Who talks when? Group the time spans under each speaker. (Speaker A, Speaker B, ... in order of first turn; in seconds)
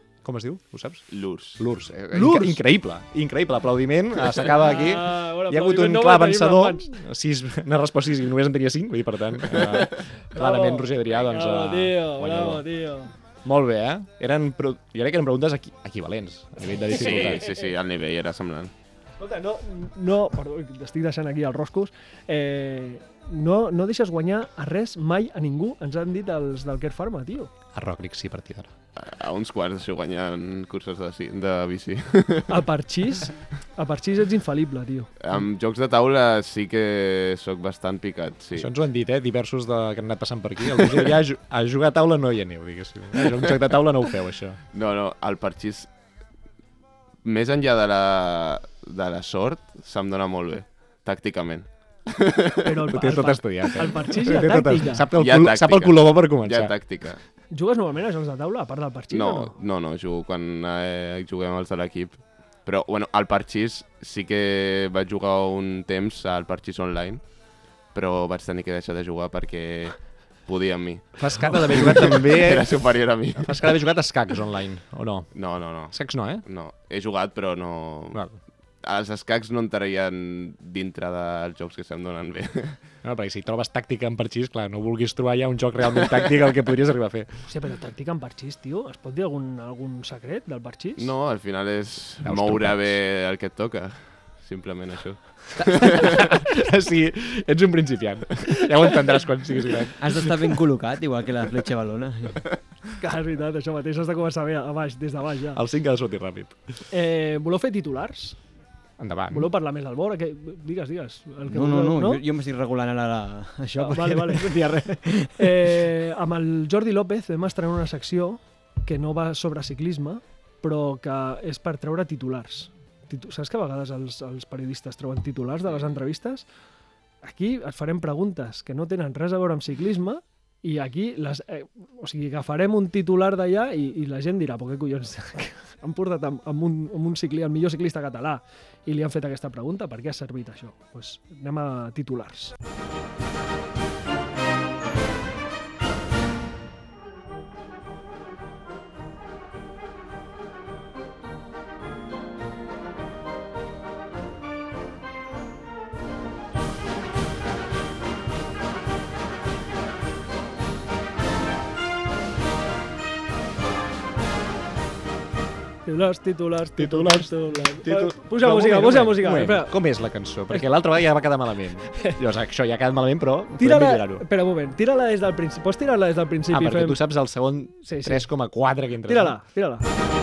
Speaker A: 0.2-12.7, 13.4-17.4, 27.7-28.7, 38.6-44.6, 52.9-56.7, 71.2-72.8, 73.4-75.3, 75.9-76.4, 83.0-87.3, 92.2-93.0, 95.7-100.4, 105.5-106.5, 109.0-109.5, 166.8-174.2, 176.5-179.4
Speaker B: 1.1-1.6, 16.9-18.7, 29.0-32.6, 35.2-38.7, 44.7-45.9, 47.2-52.7, 55.1-57.2, 59.1-67.2, 67.9-73.7, 75.3-78.2, 78.8-82.8, 91.0-96.2
Speaker C: 2.1-2.6, 4.5-6.9, 10.3-13.1, 16.9-17.7, 19.2-27.5, 32.5-35.1, 52.6-55.1, 57.5-59.5, 87.5-91.1, 103.0-105.6, 106.9-108.4, 109.3-112.2, 113.8-126.5, 127.2-142.5, 165.9-169.8, 171.9-172.2, 173.6-177.0, 177.8-178.3, 179.1-179.9
Speaker D: 100.0-102.5, 111.5-115.8